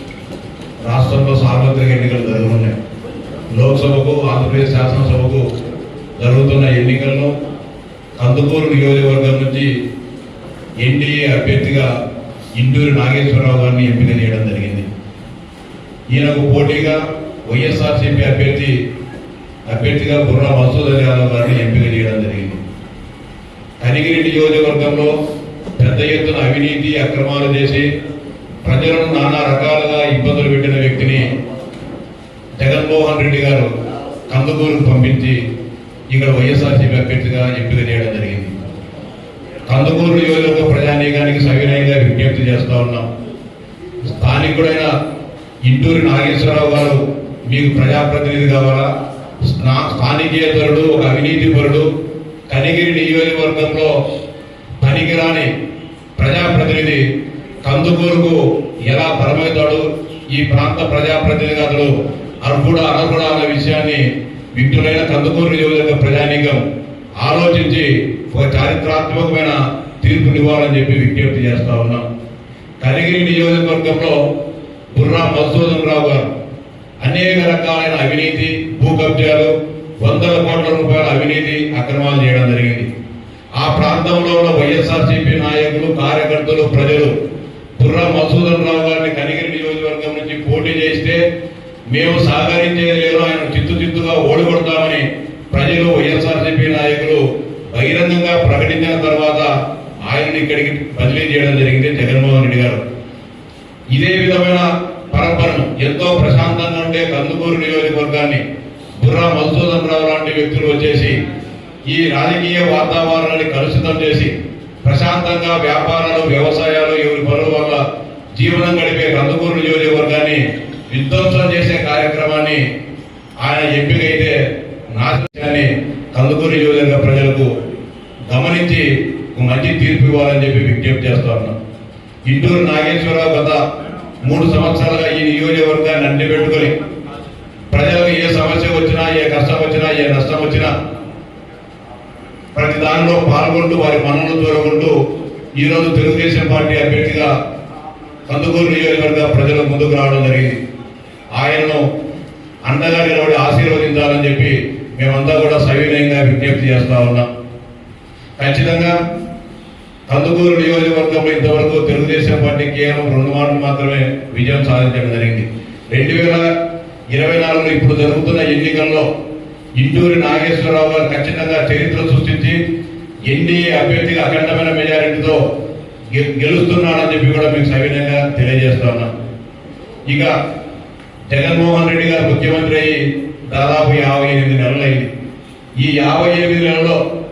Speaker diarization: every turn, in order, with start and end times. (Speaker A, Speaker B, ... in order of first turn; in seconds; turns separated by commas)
Speaker A: 0.8-2.7, Speaker A: 3.5-5.4, Speaker A: 6.2-7.3, Speaker A: 8.2-9.7, Speaker A: 10.8-11.9, Speaker A: 12.6-14.8, Speaker A: 16.1-18.7, Speaker A: 19.6-22.6, Speaker A: 23.8-25.1, Speaker A: 25.8-27.9, Speaker A: 28.6-31.3, Speaker A: 32.6-33.7, Speaker A: 34.3-35.4, Speaker A: 36.1-38.5, Speaker A: 39.7-43.0, Speaker A: 44.1-44.9, Speaker A: 45.6-48.9, Speaker A: 49.5-51.9, Speaker A: 52.5-53.9, Speaker A: 54.8-55.5, Speaker A: 56.2-57.0, Speaker A: 57.6-66.6, Speaker A: 67.2-72.0, Speaker A: 72.8-74.2, Speaker A: 74.9-76.3, Speaker A: 77.0-82.9, Speaker A: 83.6-87.1, Speaker A: 87.8-91.2, Speaker A: 91.9-99.5, Speaker A: 100.0-102.8, Speaker A: 103.9-108.4, Speaker A: 109.0-111.2, Speaker A: 111.9-117.8, Speaker A: 118.3-122.6, Speaker A: 123.4-124.4, Speaker A: 124.9-127.5, Speaker A: 128.3-131.5, Speaker A: 132.3-133.6, Speaker A: 134.2-136.7, Speaker A: 137.7-140.7, Speaker A: 142.5-144.9, Speaker A: 145.6-147.3, Speaker A: 148.3-150.6, Speaker A: 151.3-151.8, Speaker A: 152.6-157.3, Speaker A: 158.4-158.9, Speaker A: 160.1-166.5, Speaker A: 167.1-169.1, Speaker A: 169.8-172.6, Speaker A: 173.3-175.4, Speaker A: 176.1-179.1, Speaker A: 180.1-180.3, Speaker A: 181.3-185.1, Speaker A: 185.8-187.0